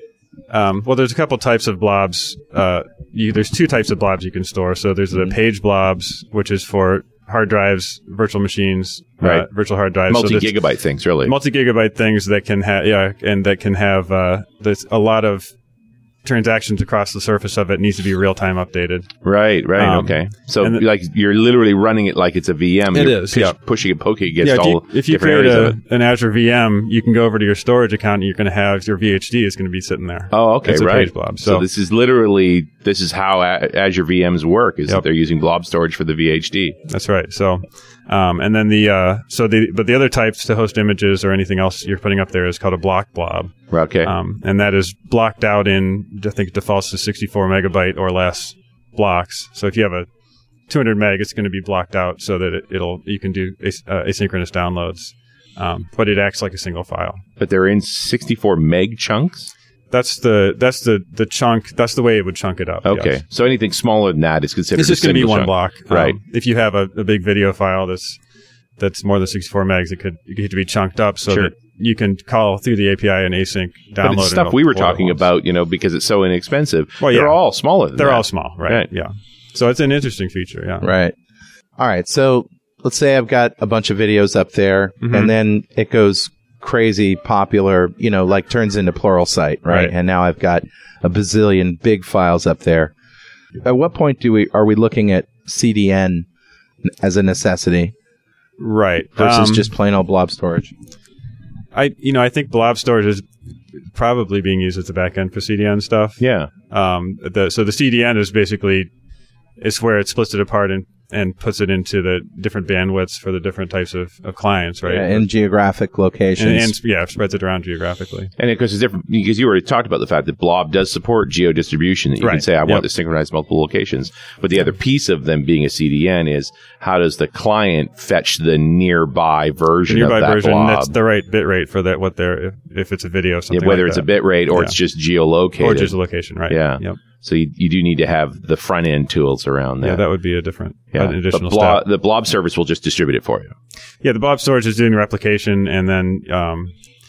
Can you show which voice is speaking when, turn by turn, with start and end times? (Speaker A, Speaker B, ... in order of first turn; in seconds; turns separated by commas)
Speaker A: 0.5-10.6, Speaker B: 10.1-11.3, Speaker A: 11.2-15.5, Speaker A: 16.2-19.1, Speaker B: 19.2-25.8, Speaker A: 19.8-20.8, Speaker A: 22.9-23.6, Speaker A: 24.4-31.6, Speaker B: 30.3-36.8, Speaker A: 36.9-50.1, Speaker B: 43.7-44.1, Speaker A: 50.7-57.2, Speaker B: 57.4-59.5, Speaker A: 59.9-63.2, Speaker B: 62.9-66.2, Speaker A: 64.8-68.2, Speaker A: 68.8-75.2, Speaker B: 74.0-78.9, Speaker A: 77.0-77.4, Speaker A: 78.0-80.9, Speaker C: 80.8-81.2, Speaker C: 81.8-92.9, Speaker A: 85.0-85.3, Speaker A: 89.7-89.9, Speaker C: 93.6-96.3, Speaker C: 96.8-97.9, Speaker A: 98.6-99.7, Speaker C: 99.2-100.7, Speaker A: 101.7-103.3, Speaker A: 103.9-108.9, Speaker B: 106.2-106.5, Speaker A: 109.6-115.3, Speaker C: 114.9-116.8, Speaker A: 116.4-118.3, Speaker B: 118.4-130.9, Speaker A: 122.2-122.9, Speaker A: 129.9-134.8, Speaker B: 133.5-135.9, Speaker A: 135.6-137.0, Speaker B: 136.5-140.0, Speaker A: 139.8-141.8, Speaker B: 140.9-143.6, Speaker A: 144.0-146.7